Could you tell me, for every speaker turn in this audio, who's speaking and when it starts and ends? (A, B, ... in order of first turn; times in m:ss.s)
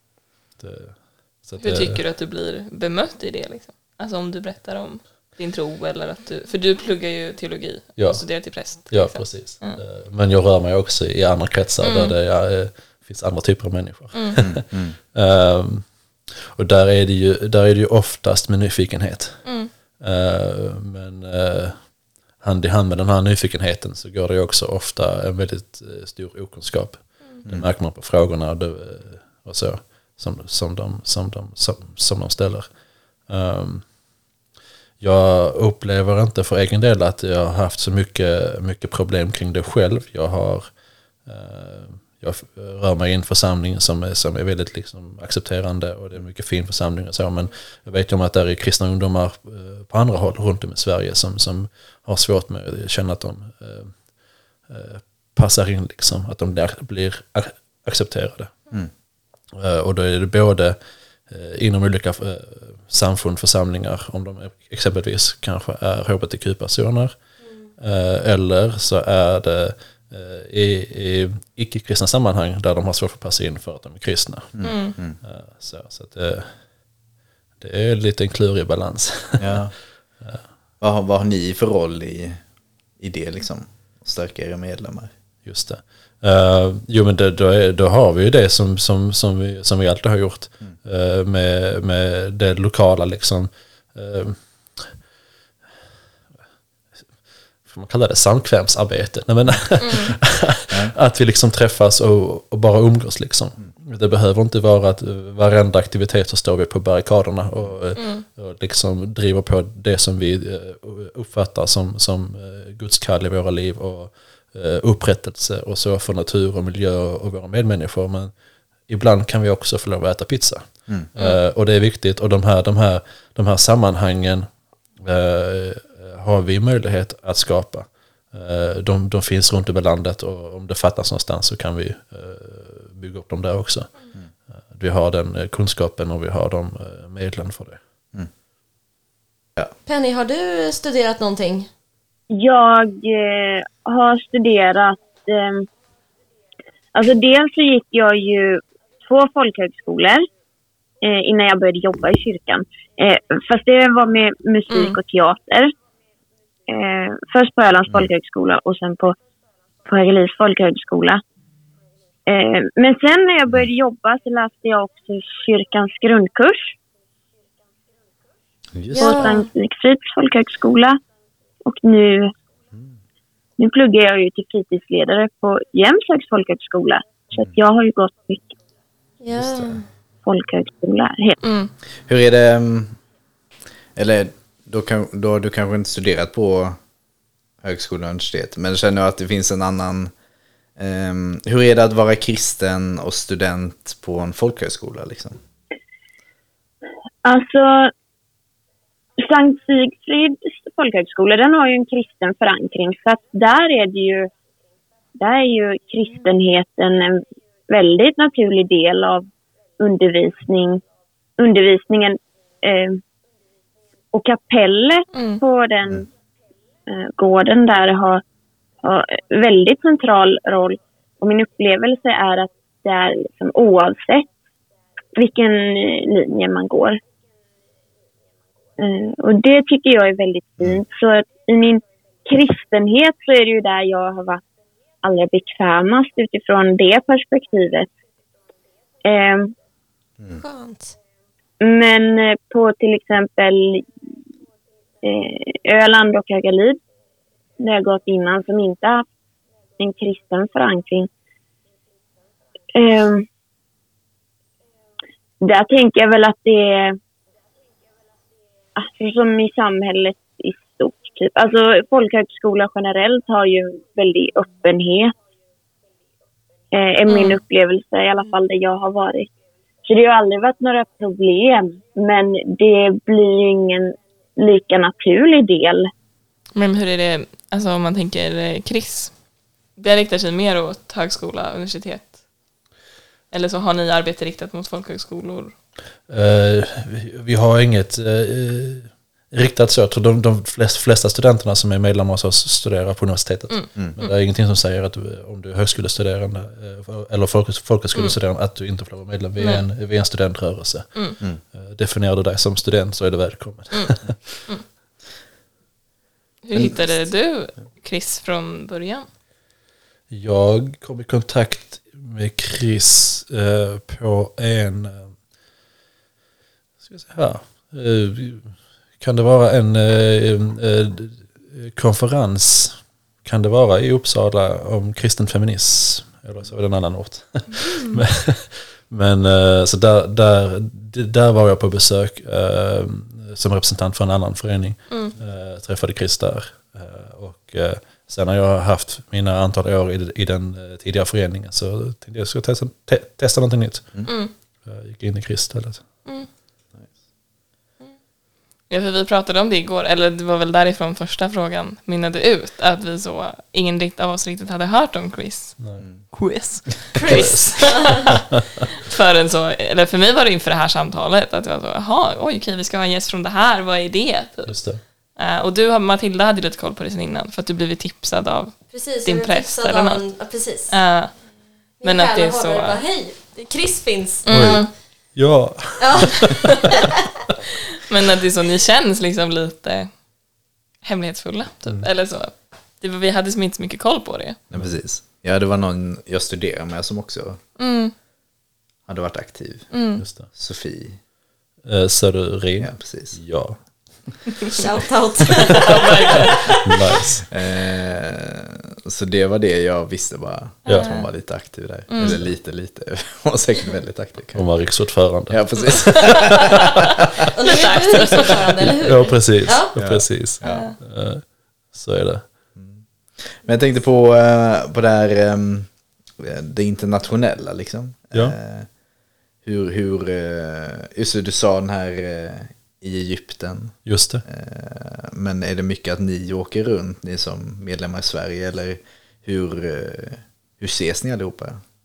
0:00.6-0:02.0 A
0:01.6-0:09.8 B
0:08.0-0:32.7 A
0:11.8-0:12.2 B
0:14.4-0:15.0 C
0:19.4-0:19.7 B
0:33.3-0:33.9 A
0:35.0-0:40.7 A
0:41.2-0:54.0 A
0:54.6-0:58.6 A
0:59.5-1:07.2 A
1:07.4-1:07.7 D
1:07.8-1:14.7 A
1:14.6-1:15.2 C
1:14.6-1:15.0 B
1:15.2-1:16.6 A
1:17.6-1:19.7 A
1:19.4-1:19.7 C
1:20.8-1:22.4 C
1:23.0-1:25.1 C
1:25.4-1:35.0 A
1:37.6-1:58.3 A
1:39.4-1:40.1 C
1:48.0-1:48.2 B
1:58.9-2:04.5 A
2:05.0-2:13.9 A
2:14.7-2:17.8 A
2:19.9-2:21.7 D
2:22.3-2:25.7 E
2:26.9-2:30.2 E
2:31.0-2:35.7 E
2:36.7-2:39.2 E
2:39.9-2:41.2 E
2:42.3-2:46.7 E
2:48.7-2:49.3 C
2:48.9-2:49.5 D
2:49.0-2:51.0 E
2:51.6-2:52.3 E
2:53.6-2:58.6 E
2:59.2-2:59.8 D
2:59.4-2:59.8 C
3:00.2-3:01.4 E
3:01.4-3:01.7 B
3:02.1-3:03.0 C
3:04.0-3:06.8 C
3:07.6-3:10.1 C
3:10.8-3:15.4 C
3:17.2-3:17.9 E
3:19.2-3:24.3 E
3:25.2-3:29.3 E
3:29.8-3:30.8 E
3:31.4-3:33.0 E
3:34.1-3:36.1 E
3:35.1-3:35.4 B
3:36.9-3:38.2 E
3:38.8-3:44.3 E
3:45.2-3:47.0 E
3:48.8-3:54.4 E
3:55.0-3:57.9 E
3:59.0-3:59.5 E
4:00.4-4:01.0 D
4:01.6-4:03.8 E
4:05.0-4:06.8 E
4:07.6-4:09.0 E
4:09.8-4:11.1 E
4:12.8-4:13.3 E
4:15.4-4:17.0 E
4:18.8-4:25.1 E
4:26.7-4:29.3 E
4:27.1-4:27.4 B
4:29.9-4:35.9 E
4:36.6-4:39.2 B
4:39.8-4:42.2 B
4:43.3-4:45.6 B
4:46.1-5:04.4 A
4:53.5-4:54.1 B
4:59.4-4:59.6 B
5:06.4-5:09.1 B
5:10.1-5:15.1 A
5:16.8-5:44.1 A
5:27.6-5:28.0 B
5:34.9-5:35.1 B
5:44.1-5:44.3 B
5:44.6-5:45.9 A
5:48.7-5:58.1 B
5:55.6-5:56.0 A
5:57.0-5:58.6 A
5:57.0-5:58.2 D
5:58.8-6:11.2 B
6:04.5-6:04.8 A
6:08.7-6:10.8 D
6:11.8-6:14.7 D
6:11.8-6:12.8 B
6:14.3-6:14.7 B
6:14.3-6:16.7 A
6:15.8-6:16.9 D
6:17.9-6:20.0 B
6:20.8-6:24.4 B
6:24.5-6:27.4 C
6:24.5-6:24.8 A
6:27.6-6:28.0 B
6:28.9-6:29.7 C
6:29.7-6:30.0 B
6:30.0-6:30.3 A
6:30.2-6:31.0 C
6:31.6-6:34.2 A
6:32.6-6:33.2 C
6:34.5-6:37.0 D
6:35.5-6:36.4 B
6:36.3-6:37.3 A
6:37.3-6:44.5 C
6:40.7-6:40.9 A
6:40.7-6:41.1 B
6:41.9-6:42.2 B
6:44.3-6:46.1 A
6:45.3-6:46.8 C
6:45.7-6:46.3 B
6:47.4-6:49.7 D
6:47.5-6:48.6 B
6:48.6-6:52.3 A
6:49.8-6:50.7 C
6:50.4-6:50.8 B
6:52.6-6:58.7 C
6:59.4-7:11.6 C
7:03.8-7:04.2 A